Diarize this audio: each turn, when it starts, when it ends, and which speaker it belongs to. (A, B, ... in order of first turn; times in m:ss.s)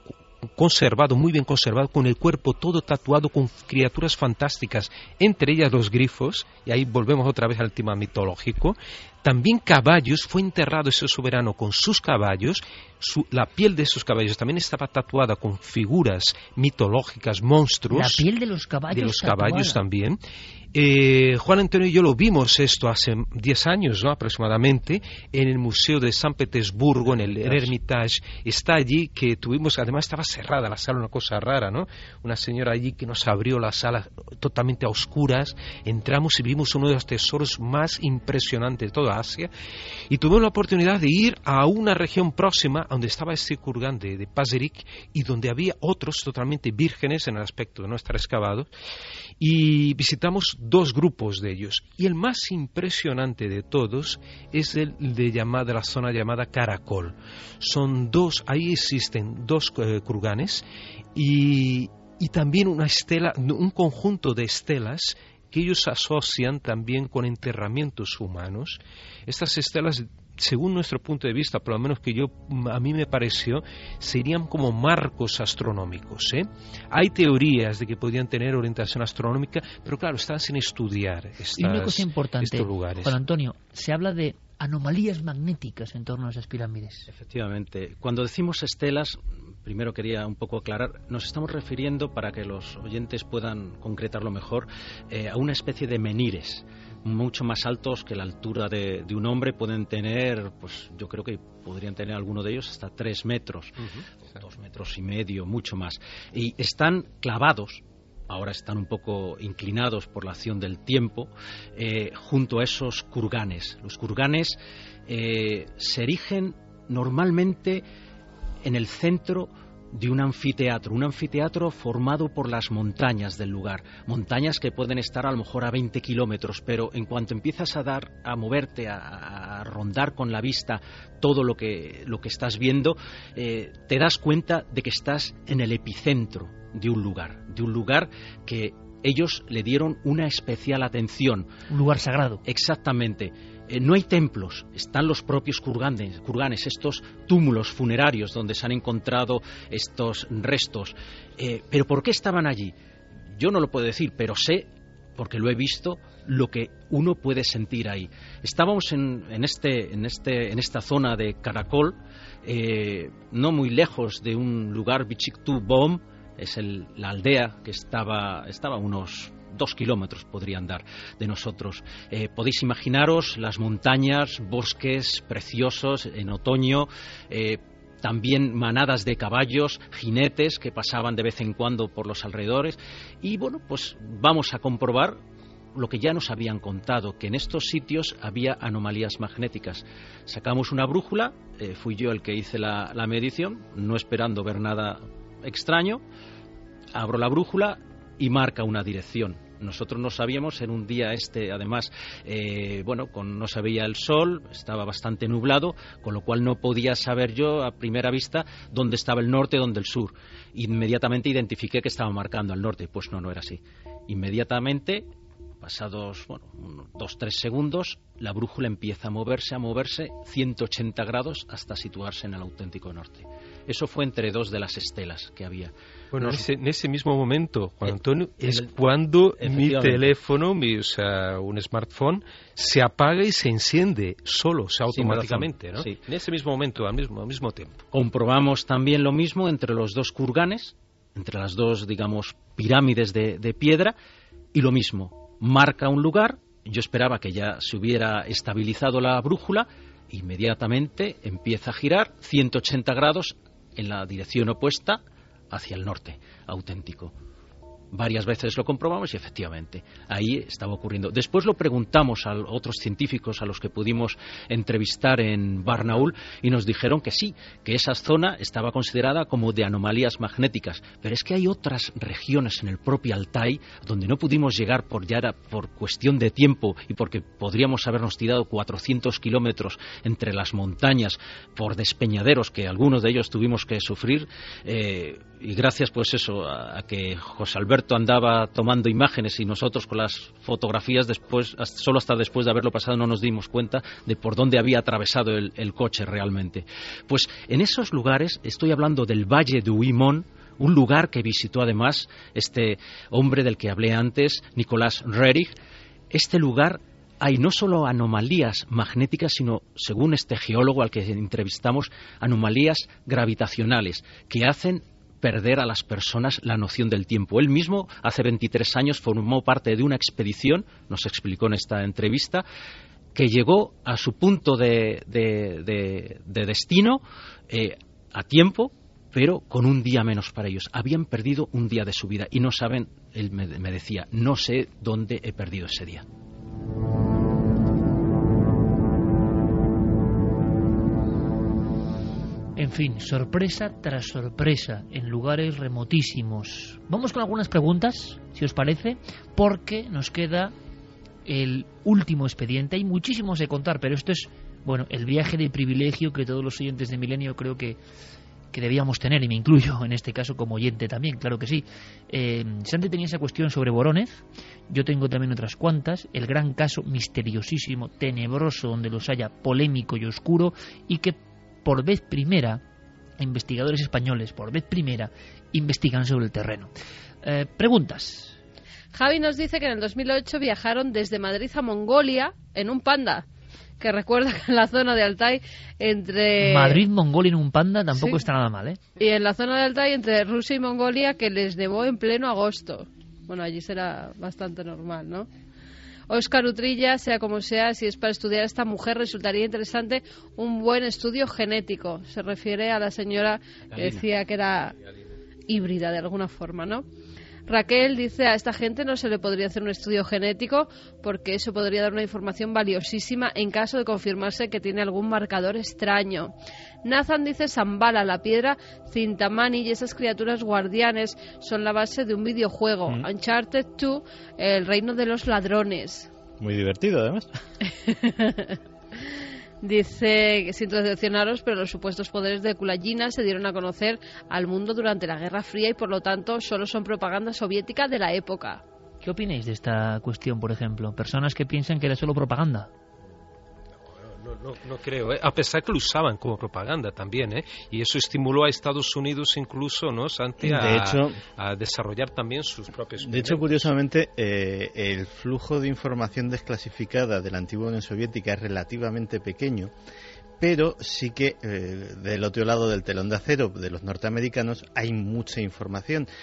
0:00.6-0:18.3 A
0:17.9-0:19.8 B
0:18.9-0:20.2 A
0:20.7-0:39.5 A
0:40.1-0:48.7 A
0:49.4-1:00.6 A
1:01.2-1:23.2 A
1:21.6-1:27.1 B
1:27.1-1:57.8 C
1:58.6-2:21.5 C
2:21.7-2:22.4 B
2:22.4-2:32.7 C
2:33.3-3:05.2 C
3:05.7-3:16.0 C
3:16.9-3:35.1 C
3:35.6-3:46.5 C
3:46.1-3:57.8 A
3:47.9-3:48.7 C
3:49.4-3:50.1 C
3:54.9-3:56.0 C
3:57.9-4:04.0 C
4:04.5-4:17.2 C
4:17.9-5:05.6 C
5:06.1-5:22.4 C
5:23.2-5:36.0 C
5:42.6-5:50.5 B
5:51.3-5:57.8 B
5:58.5-6:12.6 B
6:13.2-6:16.7 B
6:17.2-6:18.4 B
6:18.9-6:23.3 D
6:23.8-6:26.8 D
6:26.4-6:28.8 B
6:28.0-6:28.2 D
6:29.0-6:35.3 D
6:36.1-6:44.8 D
6:43.7-6:44.0 C
6:45.5-6:46.8 D
6:47.5-6:56.3 D
6:56.8-7:06.1 D
7:06.4-7:07.3 E
7:07.7-7:08.6 D
7:09.6-7:18.6 D
7:19.0-7:22.7 B
7:24.0-7:33.6 A
7:30.4-7:31.2 E
7:33.0-7:39.7 E
7:40.4-7:46.1 E